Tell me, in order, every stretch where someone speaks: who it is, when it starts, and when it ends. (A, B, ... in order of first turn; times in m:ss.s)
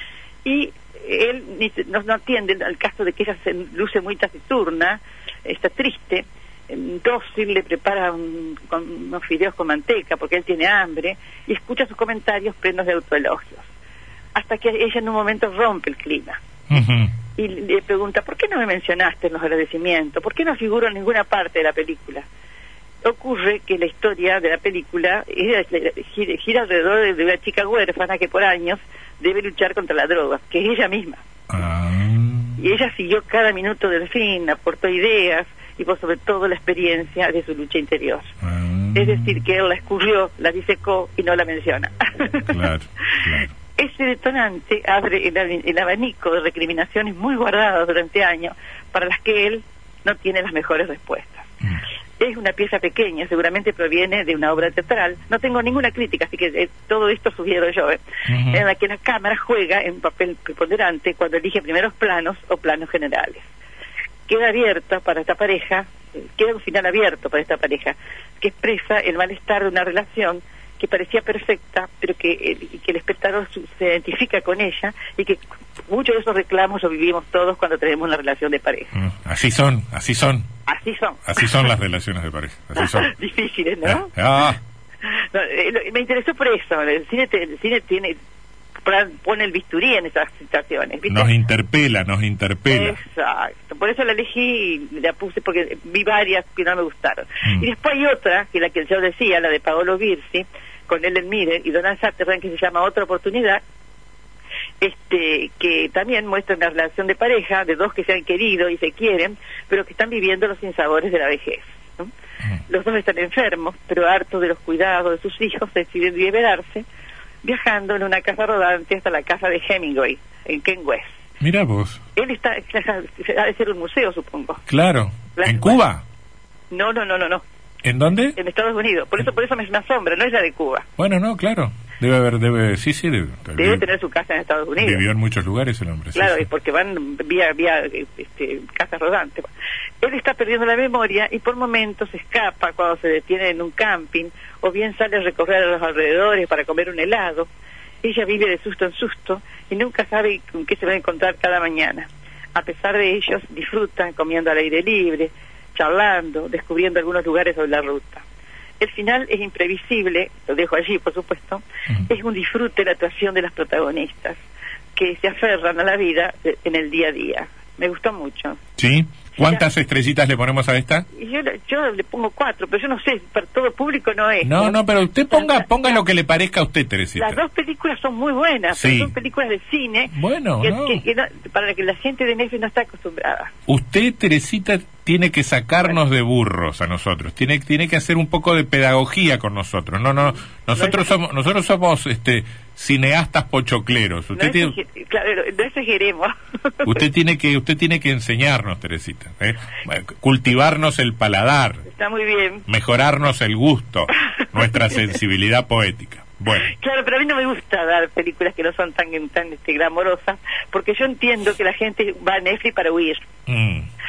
0:00.4-0:13.7 A
0:14.3-0:16.4 A
0:16.7-0:17.1 B
0:17.3-0:22.2 A
0:23.0-0:31.2 A
0:31.5-0:32.6 B
0:32.6-0:38.3 A
0:38.4-0:39.4 B
0:38.9-0:42.6 A
0:42.5-0:43.5 B
0:43.4-0:51.5 A
0:52.2-1:03.5 A
0:58.3-0:58.6 B
1:04.3-1:18.9 A
1:18.9-1:20.5 B
1:20.6-1:21.7 A
1:21.2-1:23.1 B
1:22.8-1:24.1 A
1:23.8-1:24.6 B
1:25.0-1:28.2 A
1:28.8-1:31.3 A
1:31.1-1:33.0 B
1:32.7-1:43.6 A
1:37.4-1:37.7 B
1:44.8-1:52.1 A
1:52.7-1:56.8 A
1:57.4-2:01.1 A
2:01.4-2:02.0 B
2:02.1-2:04.6 A
2:04.7-2:06.0 B
2:05.3-2:05.8 A
2:06.7-2:07.4 A
2:07.8-2:08.4 B
2:08.3-2:10.8 A
2:11.0-2:13.8 B
2:13.6-2:15.0 A
2:14.8-2:16.4 B
2:16.1-2:19.5 A
2:20.0-2:27.5 A
2:28.0-2:38.2 A
2:38.8-2:44.4 A
2:44.9-2:48.6 A
2:48.8-2:51.0 B
2:49.4-2:49.6 A
2:51.1-2:54.8 A
2:54.4-2:57.4 B
2:55.3-2:55.9 A
2:57.2-3:03.5 A
2:58.7-2:59.1 B
3:00.1-3:01.0 B
3:03.7-3:14.7 B
3:10.7-3:11.1 A
3:14.3-3:17.0 A
3:16.8-3:21.8 B
3:21.8-3:22.6 A
3:22.7-3:26.7 B
3:24.1-3:25.1 A
3:26.6-3:33.2 A
3:33.5-3:33.9 B